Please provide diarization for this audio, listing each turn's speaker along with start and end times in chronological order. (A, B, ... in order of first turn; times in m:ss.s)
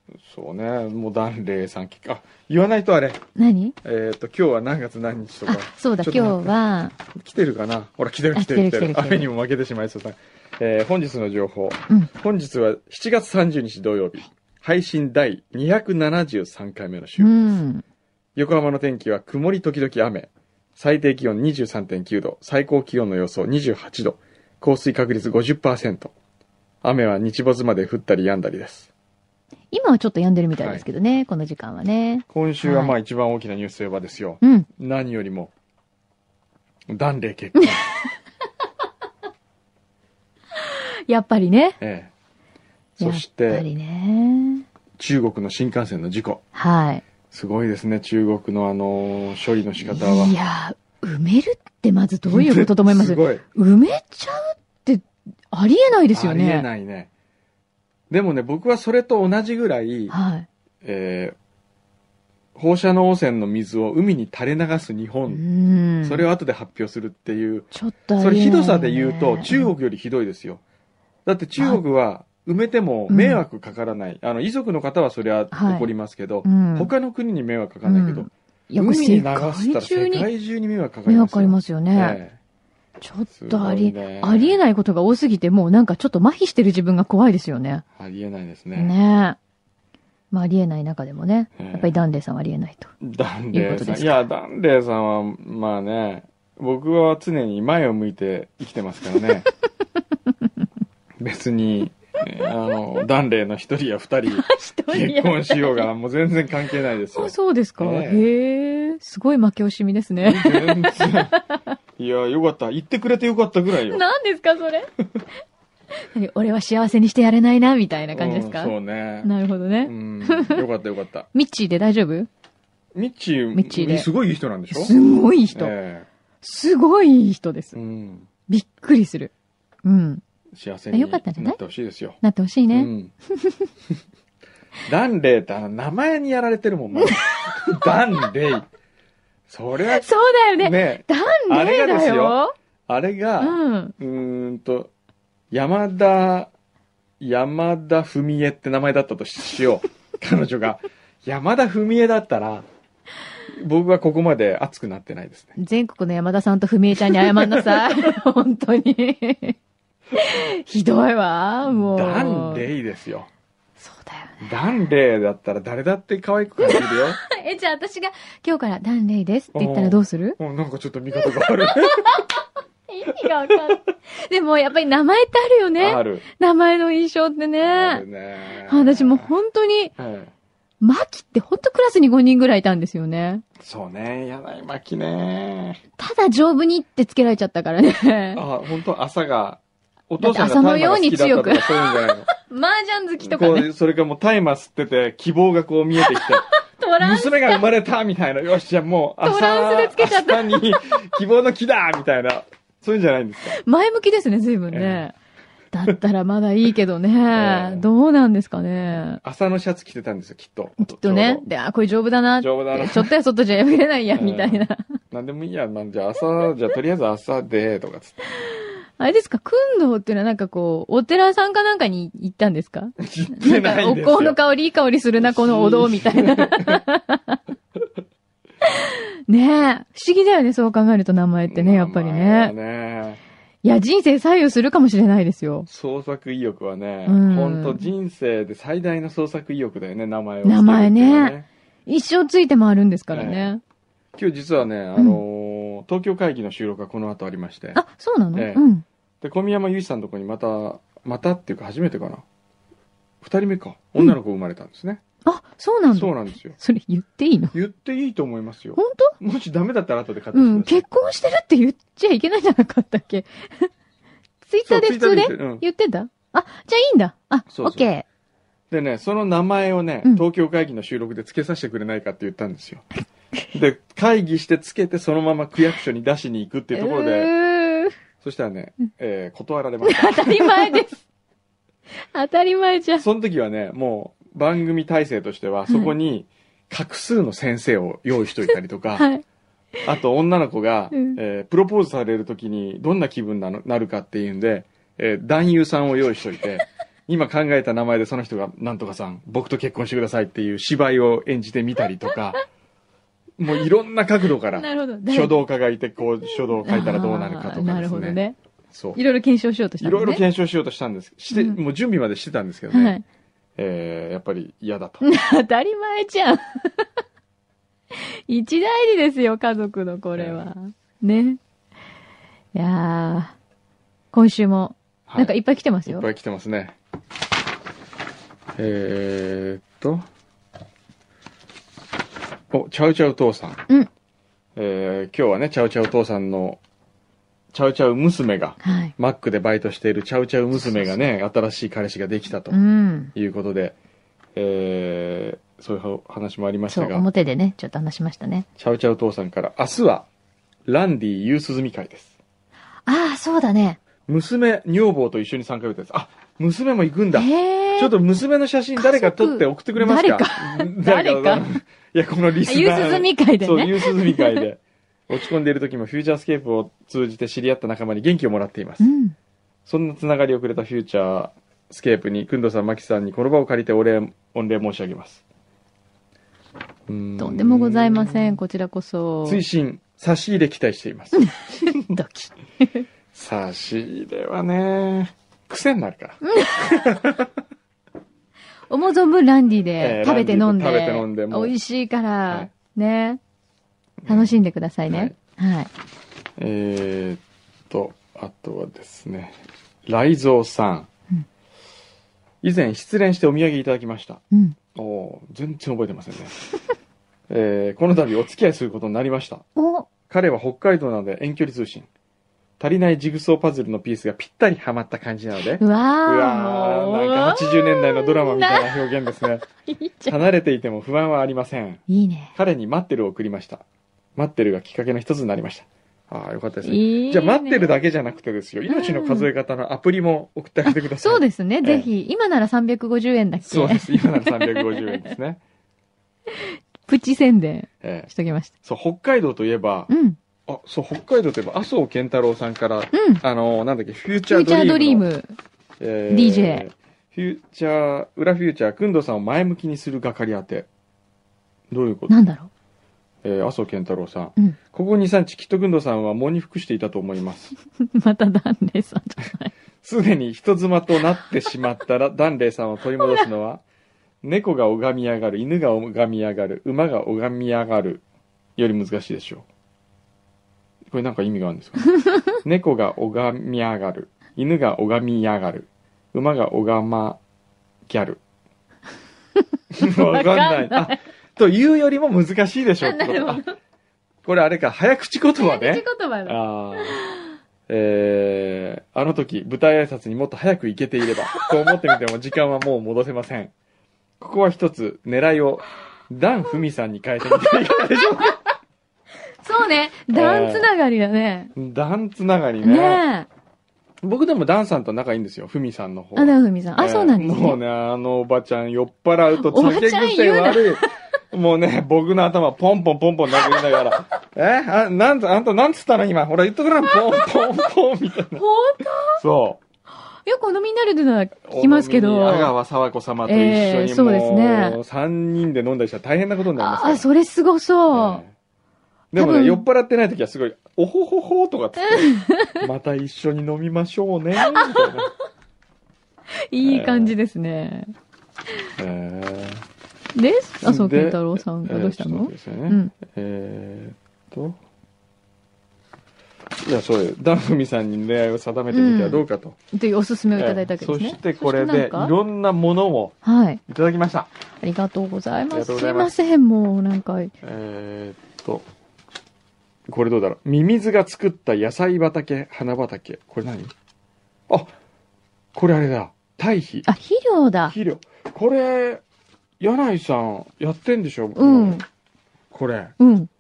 0:00.2-0:03.2 A
0:03.4-0:03.8 B
0:03.8-0:17.4 A
0:05.5-0:06.9 B
0:08.4-0:09.3 B
0:17.2-0:17.8 B
0:18.4-0:26.1 A
0:26.8-0:28.9 A
0:29.7-0:33.0 B
0:32.3-0:35.5 A
0:34.4-0:34.7 B
0:36.9-0:37.9 A
0:40.7-0:41.8 B
0:41.8-0:42.1 A
0:43.0-0:43.7 A
0:43.0-0:44.6 B
0:45.0-0:46.4 A
0:46.6-0:47.0 B
0:47.3-0:50.4 A
0:49.8-0:56.7 B
0:52.3-0:53.4 A
0:56.1-0:57.1 A
0:58.1-1:00.2 A
1:00.1-1:00.5 B
1:00.8-1:01.4 A
1:02.6-1:05.4 A
1:05.3-1:06.3 B
1:06.0-1:07.7 A
1:07.7-1:09.7 B
1:08.2-1:10.6 A
1:11.3-1:22.4 A
1:13.1-1:13.4 B
1:15.5-1:15.9 B
1:16.4-1:16.9 B
1:17.9-1:20.3 B
1:21.1-1:22.2 B
1:23.0-1:27.8 B
1:23.3-1:24.6 A
1:28.0-1:28.9 A
1:28.8-1:29.4 B
1:30.3-1:32.9 B
1:31.6-1:32.0 A
1:33.0-1:39.5 A
1:33.5-1:34.2 B
1:41.2-1:48.2 A
1:44.3-1:45.9 B
1:47.1-1:51.8 B
1:50.2-1:51.3 A
1:52.0-1:54.0 A
1:53.8-1:54.9 B
1:56.1-2:00.6 B
1:58.1-1:59.3 A
1:59.8-2:01.3 A
2:01.3-2:02.3 B
2:02.9-2:04.9 A
2:03.6-2:04.1 B
2:04.7-2:05.7 B
2:05.5-2:06.1 A
2:06.4-2:07.8 B
2:07.7-2:08.3 A
2:08.5-2:09.3 B
2:09.8-2:10.2 B
2:10.5-2:13.1 A
2:10.9-2:11.6 B
2:12.2-2:13.6 B
2:14.9-2:18.7 A
2:17.0-2:17.8 B
2:19.5-2:20.1 A
2:19.9-2:22.5 B
2:20.6-2:24.9 A
2:23.4-2:23.9 B
2:25.5-2:26.5 A
2:27.2-2:32.7 A
2:33.5-2:35.6 A
2:35.6-2:39.6 B
2:37.1-2:38.1 A
2:40.1-2:42.7 B
2:41.7-2:43.3 A
2:43.8-2:44.5 B
2:44.4-2:47.2 A
2:46.6-2:50.4 B
2:49.5-2:52.2 A
2:51.2-2:58.0 B
2:55.8-2:56.2 A
2:57.6-2:59.3 A
2:58.7-2:59.9 B
3:00.0-3:00.3 A
3:00.8-3:03.4 B
3:03.6-3:05.8 A
3:06.0-3:08.4 B
3:08.3-3:12.3 A
3:10.2-3:13.7 B
3:13.2-3:16.5 A
3:16.0-3:17.6 B
3:17.0-3:23.6 A
3:19.2-3:21.1 B
3:23.5-3:25.2 B
3:24.7-3:25.1 A
3:25.7-3:29.2 B
3:27.4-3:27.9 A
3:28.9-3:31.5 A
3:30.8-3:34.9 B
3:32.4-3:33.1 A
3:34.2-3:38.2 A
3:39.0-3:47.4 B
3:43.0-3:44.4 A
3:45.2-3:46.8 A
3:48.6-3:52.5 B
3:51.5-3:53.2 A
3:53.6-3:55.7 B
3:55.7-4:01.5 A
3:57.1-3:57.8 B
4:00.4-4:01.4 B
4:01.9-4:03.6 B
4:03.1-4:03.5 A
4:04.2-4:07.8 A
4:05.0-4:05.2 B
4:07.8-4:08.8 B
4:08.3-4:08.6 A
4:09.2-4:12.2 A
4:13.2-4:15.0 A
4:15.2-4:17.5 B
4:15.9-4:16.6 A
4:17.5-4:20.9 A
4:18.8-4:19.2 B
4:20.3-4:23.7 B
4:24.4-4:28.0 B
4:24.7-4:25.6 A
4:27.5-4:27.8 A
4:28.7-4:32.8 A
4:33.5-4:37.3 A
4:36.7-4:38.0 B
4:38.2-4:40.8 A
4:39.8-4:41.0 B
4:42.1-4:43.0 B
4:43.0-4:49.1 A
4:45.7-4:45.9 B
4:49.0-4:49.2 B
4:49.8-5:02.4 A
4:50.9-4:51.2 B
5:03.4-5:08.2 A
5:04.6-5:05.4 B
5:06.6-5:08.4 B
5:08.7-5:09.0 A
5:09.0-5:10.2 B
5:09.8-5:13.0 A
5:11.3-5:11.6 B
5:12.7-5:13.0 B
5:13.6-5:15.0 A
5:15.0-5:16.9 B
5:17.9-5:21.4 B
5:20.2-5:20.5 A
5:22.6-5:23.4 B
5:24.1-5:26.1 B
5:25.1-5:25.3 A
5:25.9-5:26.8 A
5:28.6-5:30.1 A
5:32.5-5:33.6 A
5:34.6-5:36.6 A
5:37.5-5:42.6 A
5:38.6-5:38.9 B
5:42.5-5:43.1 B
5:43.2-5:43.8 A
5:44.4-5:47.1 A
5:46.7-5:48.5 B
5:48.6-5:50.1 A
5:50.7-5:52.1 A
5:52.9-5:53.8 B
5:54.1-6:08.9 A
5:57.1-5:57.9 B
5:58.8-6:01.5 B
6:02.4-6:04.4 B
6:08.8-6:09.2 B
6:09.7-6:15.2 A
6:16.9-6:18.4 A
6:17.2-6:19.4 B
6:19.2-6:21.9 A
6:21.2-6:22.8 B
6:23.1-6:27.3 A
6:26.2-6:26.7 B
6:28.7-6:33.2 B
6:29.8-6:31.5 A
6:34.0-6:34.4 A
6:34.1-6:35.7 B
6:34.9-6:35.2 A
6:36.4-6:40.9 A
6:42.4-6:44.2 A
6:44.8-6:46.4 A
6:47.3-6:49.5 A
6:49.6-6:49.9 B
6:50.1-6:51.9 A
6:52.6-6:59.4 A
6:55.6-7:00.2 B
7:00.1-7:01.8 A
7:01.9-7:02.3 B
7:02.4-7:03.6 A
7:04.2-7:11.9 A
7:06.6-7:07.7 B
7:08.7-7:09.3 B
7:10.6-7:15.1 B
7:13.4-7:15.4 A
7:16.3-7:18.5 B
7:17.8-7:18.1 A
7:18.6-7:19.9 A
7:19.9-7:20.2 B
7:20.5-7:25.0 A
7:22.9-7:23.2 B
7:24.3-7:25.3 B
7:25.8-7:30.7 A
7:26.1-7:26.7 B
7:31.7-7:32.2 A
7:32.1-7:32.5 B
7:33.2-7:37.6 A
7:37.8-7:39.5 B
7:39.8-7:43.6 A
7:44.2-7:48.0 A
7:48.6-7:49.4 A
7:50.9-7:51.9 A
7:52.4-7:57.2 A
7:57.9-7:58.2 A
7:59.7-8:03.4 A
7:59.8-8:01.0 B
8:02.8-8:03.5 B
8:04.2-8:07.0 A
8:05.4-8:07.2 B
8:07.7-8:13.5 A
8:14.2-8:18.4 A
8:19.4-8:21.5 B
8:20.1-8:20.7 A
8:21.6-8:23.0 A
8:22.6-8:23.3 B
8:24.0-8:38.4 A
8:26.2-8:27.6 B
8:29.3-8:30.9 B
8:33.3-8:34.0 B
8:38.4-8:39.2 B
8:39.2-8:39.6 A
8:40.3-8:42.5 B
8:41.4-8:47.0 A
8:43.3-8:44.8 B
8:46.6-8:48.2 B
8:47.9-8:48.3 A
8:49.1-8:55.1 A
8:49.2-8:49.6 B
8:51.8-8:52.6 B
8:54.4-8:54.8 B
8:56.5-8:57.9 B
8:56.6-8:57.2 A
8:58.8-8:59.6 A
9:00.2-9:02.9 B
9:00.6-9:04.6 A
9:06.6-9:09.6 A
9:08.7-9:12.1 B
9:10.4-9:13.2 A
9:13.2-9:13.6 B
9:13.7-9:14.3 A
9:14.6-9:17.3 B
9:15.5-9:16.1 A
9:17.4-9:18.7 A
9:19.9-9:23.7 A
9:25.5-9:26.9 A
9:26.9-9:27.8 B
9:27.7-9:29.0 A
9:29.6-9:31.8 A
9:31.4-9:31.8 B
9:32.5-9:32.9 A
9:33.0-9:33.3 B